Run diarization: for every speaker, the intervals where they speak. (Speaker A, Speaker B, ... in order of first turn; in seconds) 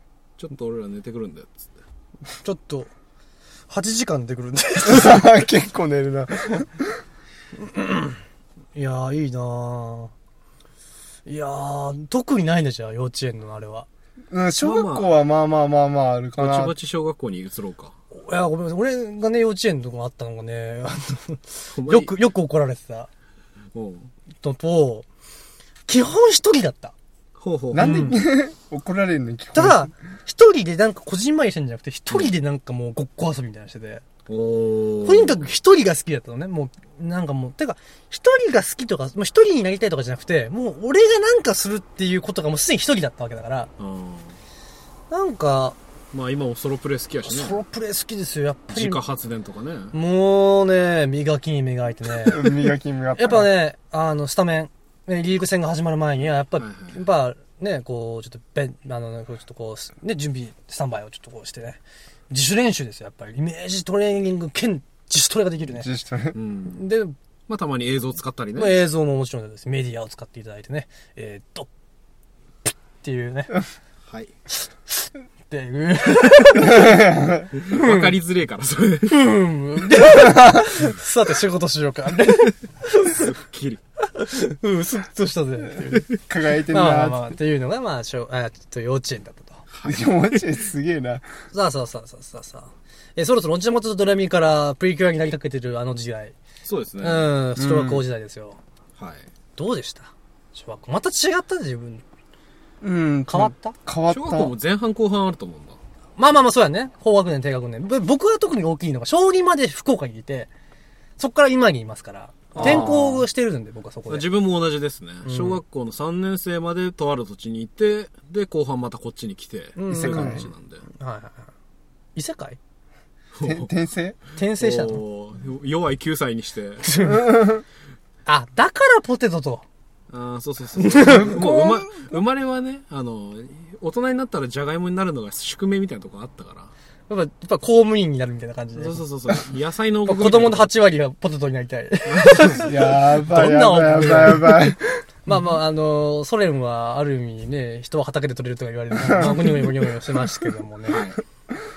Speaker A: 0.4-1.7, 14.6-15.1, 16.4-17.9, 21.7-22.1, 23.7-24.1, 27.4-28.2, 34.3-35.5, 43.8-44.4, 46.1-47.6, 48.7-49.9, 56.6-57.0, 66.3-66.8, 67.5-68.8, 77.5-79.3, 83.1-83.8, 89.7-90.4, 96.6-97.3, 99.0-99.3, 104.1-105.8, 112.5-112.9, 114.1-120.8, 123.3-123.7, 124.6-126.9, 130.1-136.7, 138.8-140.7, 142.1-142.7, 150.9-151.2
Speaker B: 2.4-2.9, 3.7-5.3, 7.6-8.2, 8.7-10.1, 11.2-13.9, 18.1-23.1, 24.4-25.1, 25.9-26.9, 27.7-28.2, 29.5-34.0, 35.0-43.7, 45.1-45.8, 47.2-49.0, 49.9-52.5, 53.1-65.9, 66.7-67.1, 68.5-71.7, 72.7-73.6, 74.5-77.1, 77.6-78.2, 79.1-83.3, 84.0-86.1, 86.7-89.6, 91.5-96.3, 97.0-98.6, 99.5-102.0, 103.3-103.8, 106.2-110.5, 111.2-114.3, 115.2-115.6, 119.8-121.5, 122.1-122.6, 124.4-125.0, 126.8-127.3, 128.3-129.6, 130.8-131.3, 137.1-139.0, 140.1-151.0
Speaker C: 4.8-7.0, 14.3-16.7, 27.7-29.9, 52.2-53.5, 65.7-66.3, 76.6-77.5, 80.3-80.6, 86.0-87.3, 89.8-91.2, 97.6-98.0, 102.8-104.5, 112.6-113.2, 119.9-120.5, 123.4-124.2, 127.1-127.6, 131.0-132.2, 142.6-145.0, 148.9-149.9